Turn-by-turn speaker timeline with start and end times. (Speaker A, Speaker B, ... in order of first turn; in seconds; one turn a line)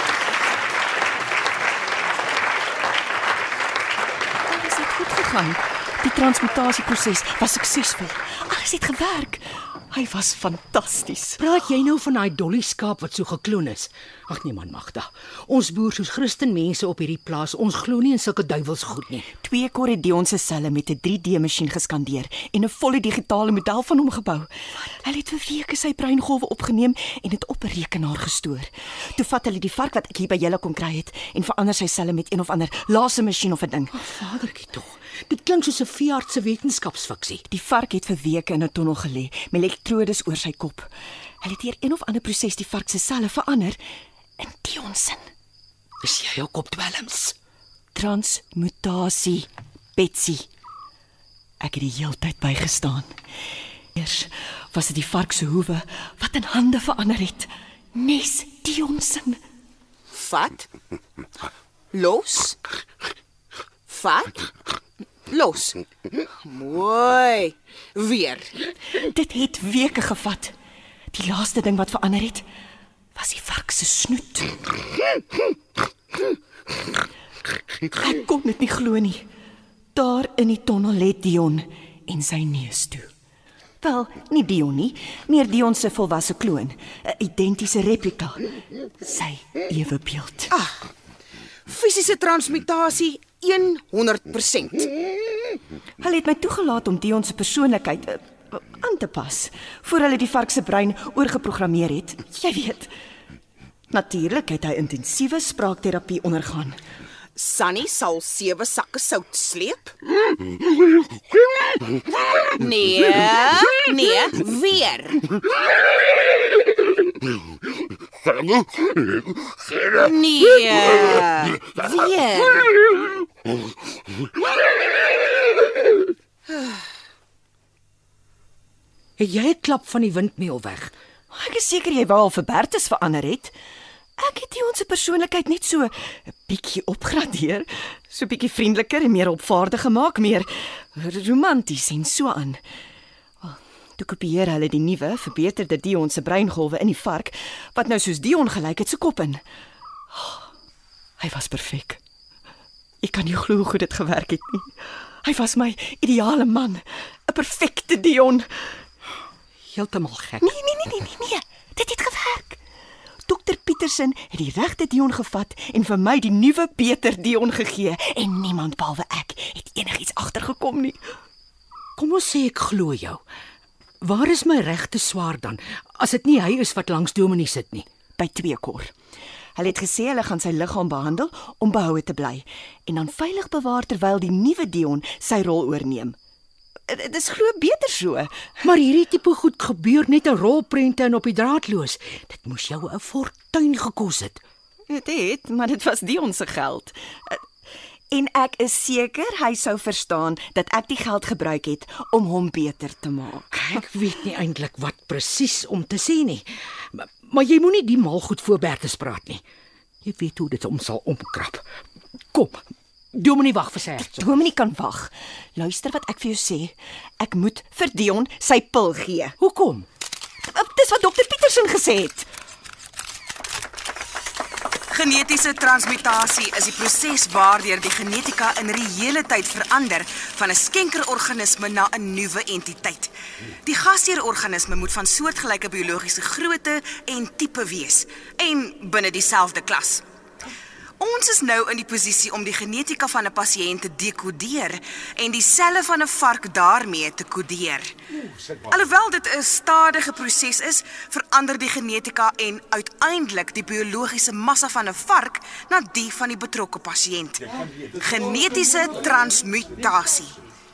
Speaker A: 4.5-11.4
Speaker B: 11.4-19.3
Speaker A: 19.4-24.5
Speaker A: 25.0-33.9
Speaker B: 33.9-37.4
Speaker A: 37.5-40.9
Speaker A: 41.4-43.8
Speaker A: 44.4-45.3
Speaker B: 46.0-47.3
Speaker A: 47.9-50.5
Speaker A: 51.6-53.1
Speaker A: 53.9-59.4
Speaker C: 60.1-60.6
Speaker C: 61.9-62.5
Speaker C: 63.9-64.4
Speaker C: 65.3-65.7
Speaker C: 66.4-68.5
Speaker A: 69.0-70.5
Speaker A: 71.1-72.4
Speaker A: 73.2-74.5
Speaker A: 77.9-79.2
Speaker A: 79.9-83.1
Speaker A: 83.8-88.4
Speaker A: 89.0-90.5
Speaker C: 90.5-90.8
Speaker C: 91.7-94.9
Speaker A: 96.0-102.9
Speaker A: 103.9-106.8
Speaker C: 107.3-109.9
Speaker C: 112.5-115.2
Speaker C: 120.0-122.7
Speaker B: 129.2-130.9
Speaker A: 131.3-133.5
Speaker A: 134.2-142.6
Speaker A: 143.4-149.4
Speaker A: 150.1-150.5
Speaker A: 151.2-152.0
Speaker A: 153.0-158.8
Speaker B: 159.7-160.5
Speaker A: 160.4-162.6
Speaker A: 163.2-171.0
Speaker B: 172.0-173.2
Speaker B: 174.0-177.9
Speaker A: 178.2-178.9
Speaker A: 179.6-186.2
Speaker A: 186.9-188.4
Speaker B: 188.6-194.4
Speaker A: 194.9-197.4
Speaker A: 198.1-203.8
Speaker B: 203.5-209.4
Speaker B: 210.0-211.6
Speaker B: 212.3-212.6
Speaker B: 213.1-214.3
Speaker A: 214.1-219.3
Speaker B: 219.4-219.8
Speaker A: 220.4-222.3
Speaker D: 224.9-233.1
Speaker D: 233.6-240.0
Speaker D: 241.0-247.9
Speaker D: 248.7-257.4
Speaker D: 257.9-260.3